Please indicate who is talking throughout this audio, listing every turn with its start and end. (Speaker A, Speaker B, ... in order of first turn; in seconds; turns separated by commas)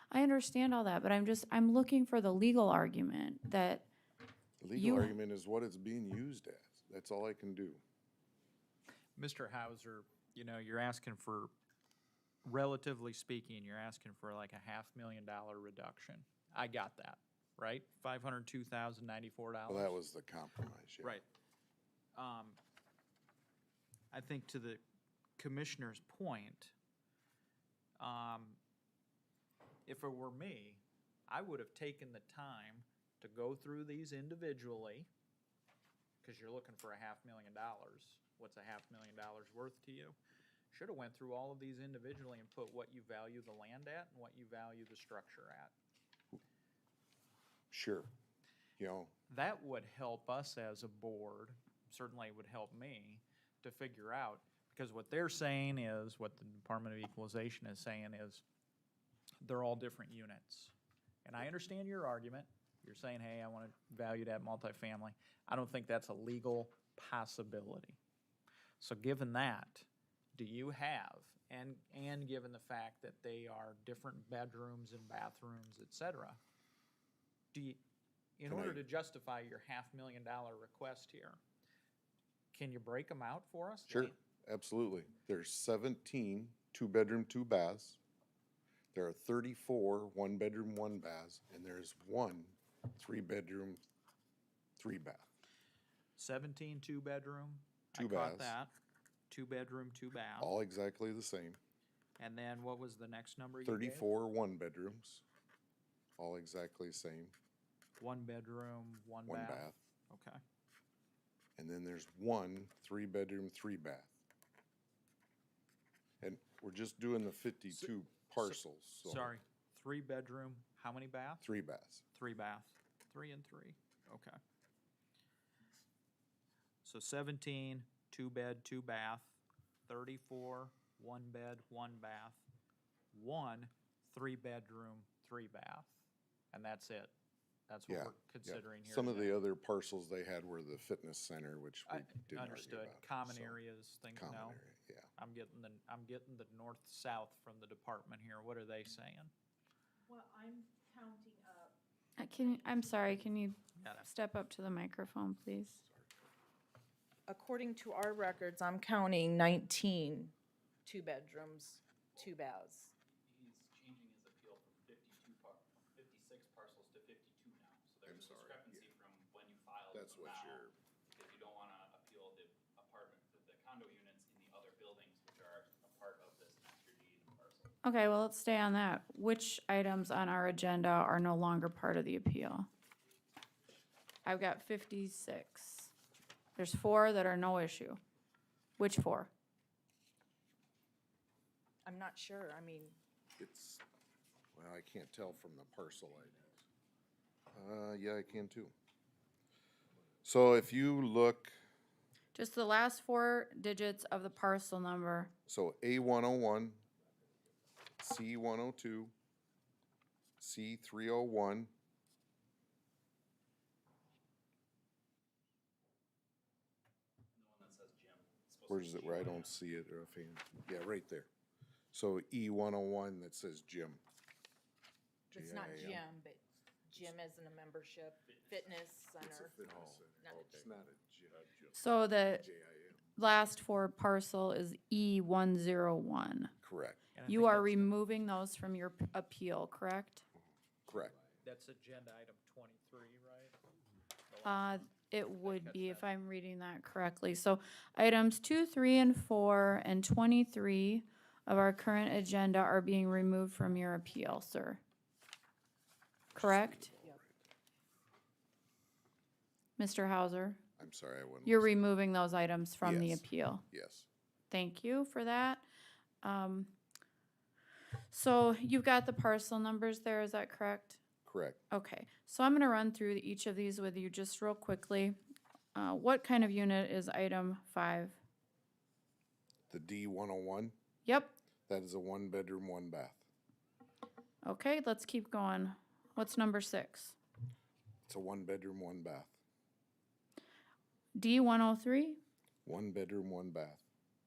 Speaker A: 0.1-3.9, Speaker B: 4.6-7.8, Speaker A: 4.8-5.1, Speaker C: 9.2-11.5, Speaker C: 12.4-19.9, Speaker B: 19.7-21.2, Speaker C: 22.1-22.6, Speaker C: 24.1-24.8, Speaker C: 25.4-26.7, Speaker C: 28.0-28.6, Speaker C: 29.9-35.1, Speaker C: 36.2-40.2, Speaker C: 40.7-45.7, Speaker B: 47.7-48.1, Speaker B: 48.8-49.1, Speaker C: 49.3-58.4, Speaker C: 59.4-60.7, Speaker C: 61.2-68.0, Speaker C: 68.8-76.4, Speaker C: 77.5-77.8, Speaker C: 78.4-81.4, Speaker B: 78.4-78.8, Speaker C: 82.5-84.1, Speaker B: 83.9-88.0, Speaker B: 88.9-93.8, Speaker B: 94.8-95.3, Speaker C: 96.2-98.7, Speaker B: 97.9-98.5, Speaker C: 99.3-100.5, Speaker B: 100.4-101.6, Speaker C: 102.2-104.1, Speaker B: 103.6-105.2, Speaker B: 106.2-107.3, Speaker C: 108.0-110.4, Speaker B: 109.2-109.7, Speaker B: 111.6-114.1, Speaker B: 116.2-119.3, Speaker C: 117.7-121.4, Speaker B: 121.4-122.0, Speaker C: 122.1-124.4, Speaker C: 126.8-129.3, Speaker C: 129.9-132.4, Speaker C: 133.1-136.0, Speaker C: 136.5-137.1, Speaker C: 137.7-139.4, Speaker B: 137.9-143.6, Speaker C: 141.9-144.6, Speaker B: 144.1-145.1, Speaker C: 145.2-149.3, Speaker D: 151.1-151.4, Speaker A: 152.2-155.8, Speaker C: 153.8-154.1, Speaker B: 155.8-156.2, Speaker D: 157.3-160.3, Speaker D: 160.8-162.9, Speaker E: 163.1-177.7, Speaker B: 168.1-168.9, Speaker B: 169.9-170.7, Speaker A: 177.8-182.7, Speaker A: 184.2-185.9, Speaker A: 186.6-188.0, Speaker A: 188.8-189.3, Speaker D: 191.8-193.0, Speaker B: 193.4-193.8, Speaker B: 194.5-196.6, Speaker B: 197.5-198.7, Speaker B: 200.2-201.5, Speaker A: 202.3-205.3, Speaker B: 205.5-206.8, Speaker B: 208.0-209.1, Speaker B: 210.4-211.7, Speaker E: 217.3-219.6, Speaker B: 218.7-221.3, Speaker B: 221.9-224.0, Speaker D: 225.3-230.6, Speaker B: 225.3-226.0, Speaker E: 228.2-229.0, Speaker B: 229.2-231.8, Speaker A: 231.7-232.5, Speaker B: 232.3-233.1, Speaker A: 233.2-236.5, Speaker B: 236.6-237.0, Speaker C: 237.1-238.0, Speaker A: 237.2-240.2, Speaker B: 240.9-241.2, Speaker C: 241.4-243.6, Speaker C: 244.3-246.1, Speaker A: 244.4-254.8, Speaker A: 256.3-256.9, Speaker B: 256.3-257.4, Speaker A: 259.8-260.6, Speaker B: 260.8-261.8, Speaker A: 261.4-263.6, Speaker B: 262.8-264.1, Speaker A: 264.5-265.6, Speaker A: 266.2-266.7, Speaker A: 268.1-271.0, Speaker B: 271.2-271.6, Speaker A: 271.7-275.2, Speaker A: 275.7-278.2, Speaker B: 279.7-280.7, Speaker A: 281.1-281.3, Speaker B: 281.7-283.2, Speaker A: 284.4-287.2, Speaker B: 288.0-289.3, Speaker A: 291.1-292.2, Speaker B: 292.6-293.8